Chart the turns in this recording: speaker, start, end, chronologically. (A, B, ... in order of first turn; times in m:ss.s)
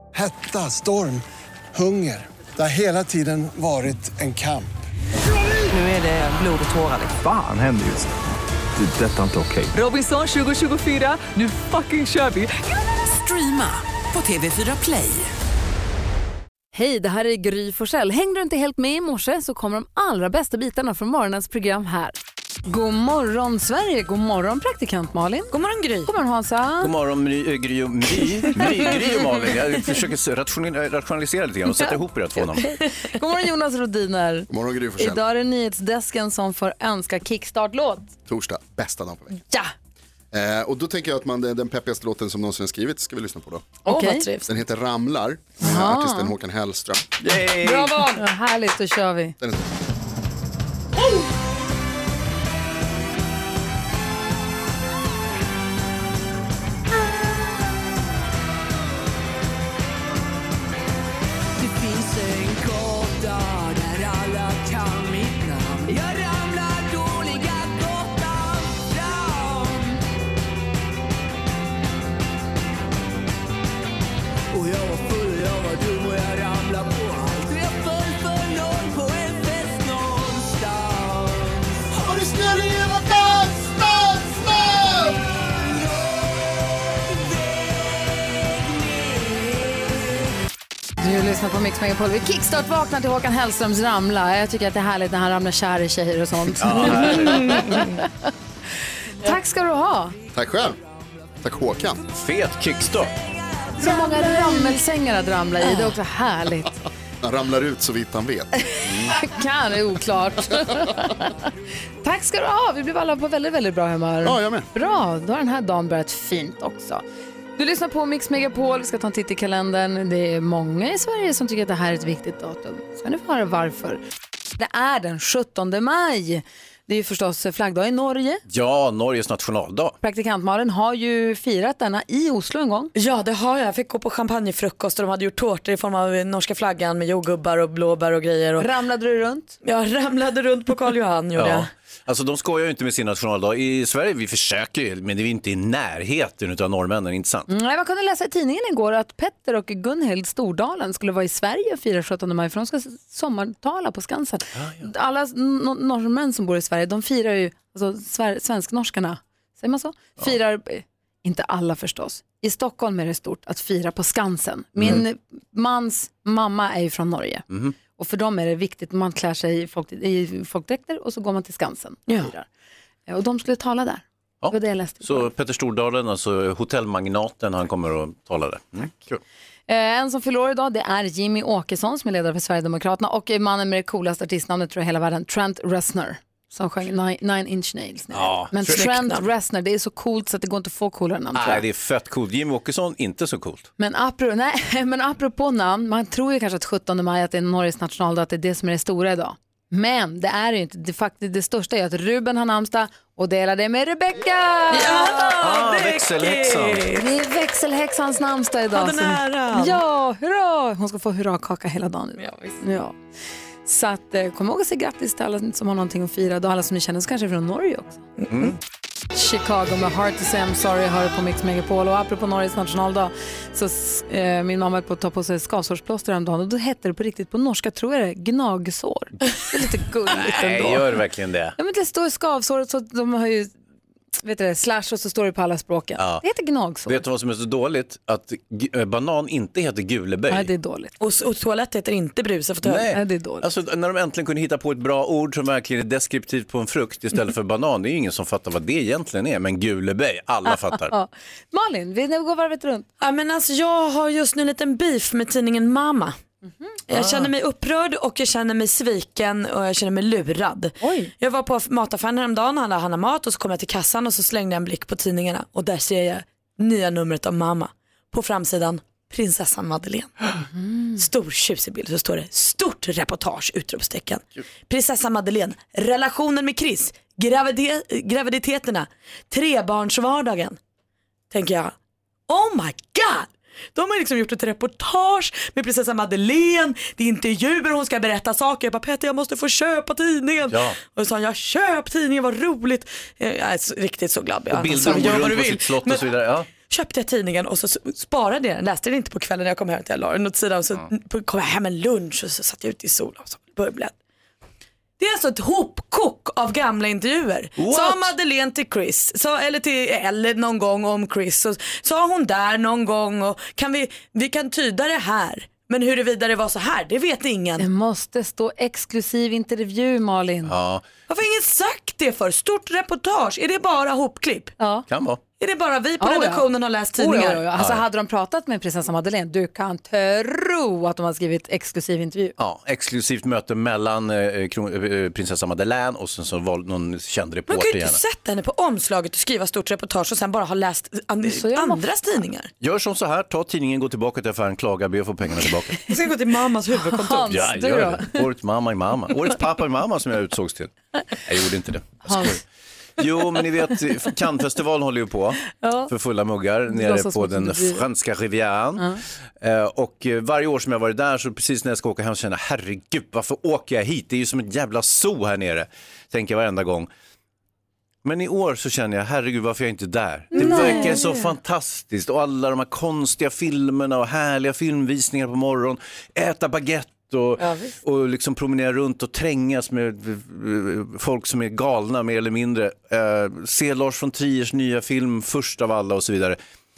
0:00.1-0:01.2 A
0:01.7-0:04.7 A
0:05.8-0:07.0 B
0:07.2-0:08.1 C
0:08.8-0:09.7 C
0:09.7-0:15.2 B
0:16.7-0:25.5 D
0:25.5-0:26.1 E
0:26.0-0:26.9 D
0:26.8-0:32.7 F
0:28.6-0:28.9 E
0:33.1-0:38.1 D
0:34.5-0:35.2 G
0:38.3-0:39.4 G
0:39.5-0:39.7 D
0:40.3-0:43.7 G
0:43.8-0:44.3 D
0:43.9-0:44.5 E
0:44.5-0:47.0 G
0:45.6-0:46.3 D
0:47.2-0:47.8 F
0:47.6-0:48.2 E
0:48.1-0:49.3 D
0:49.4-0:49.7 G
1:01.6-1:10.0 H
1:14.5-1:21.9 H
1:21.9-1:25.2 G
1:25.7-1:26.4 H
1:27.1-1:30.0 H
1:31.0-1:38.0 D
1:36.6-1:37.6 F
1:39.2-1:40.2 D
1:40.3-1:40.8 G
1:41.4-1:42.0 G
1:42.1-1:43.1 F
1:43.8-1:46.8 D
1:47.2-1:48.5 G
1:49.1-1:51.5 D
1:52.0-1:57.0 D
1:54.2-1:54.7 G
1:57.6-2:04.0 D
2:04.6-2:08.4 D
2:08.5-2:10.0 F
2:10.0-2:12.9 D
2:13.0-2:18.6 E
2:18.6-2:19.6 D
2:19.6-2:21.7 E
2:21.4-2:27.5 F
2:27.5-2:47.4 D
2:34.5-2:34.9 F
2:44.8-2:45.0 F
2:47.5-2:47.7 F
2:48.0-2:52.5 D
2:53.1-2:55.3 D
2:54.4-2:59.2 F
2:59.7-3:11.6 D
3:08.1-3:08.8 F
3:08.7-3:09.2 E
3:11.3-3:13.7 F
3:13.8-3:25.3 D
3:24.7-3:27.0 E
3:25.3-3:26.9 F
3:27.0-3:33.0 D
3:28.7-3:29.8 E
3:32.2-3:32.6 E
3:33.6-3:38.0 D
3:39.1-3:50.8 D
3:50.1-3:51.6 F
3:51.6-3:53.5 D
3:54.2-3:57.0 D
3:56.0-3:56.2 F
3:56.9-4:00.5 F
4:00.3-4:00.9 D
4:01.0-4:02.9 E
4:02.6-4:10.9 F
4:02.9-4:03.5 D
4:10.5-4:12.8 D
4:13.0-4:16.2 E
4:16.9-4:30.3 E
4:17.0-4:17.3 F
4:20.8-4:21.1 D
4:30.4-4:31.0 D
4:31.0-4:40.6 E
4:41.3-4:41.7 E
4:42.3-4:56.1 E
4:50.5-4:50.8 F
4:54.5-4:56.5 F
4:56.7-5:03.9 E
5:05.0-5:17.6 E
5:07.6-5:08.1 F
5:17.6-5:20.5 D
5:20.4-5:20.8 F
5:21.1-5:24.5 E
5:24.6-5:24.8 D
5:24.9-5:25.2 F
5:25.4-5:27.4 E
5:26.0-5:32.4 D
5:27.6-5:27.8 F
5:32.4-5:38.0 F
5:37.5-5:42.5 E
5:41.2-5:41.8 D
5:42.6-5:45.8 F
5:45.9-5:47.6 E
5:46.9-5:48.2 D
5:47.3-5:50.7 F
5:51.2-5:52.4 F
5:52.0-5:52.4 D
5:53.0-6:06.9 F
5:55.6-5:55.9 D
5:56.7-5:57.8 D
6:08.0-6:26.4 F
6:10.3-6:11.1 D
6:10.4-6:11.0 E
6:17.4-6:17.7 E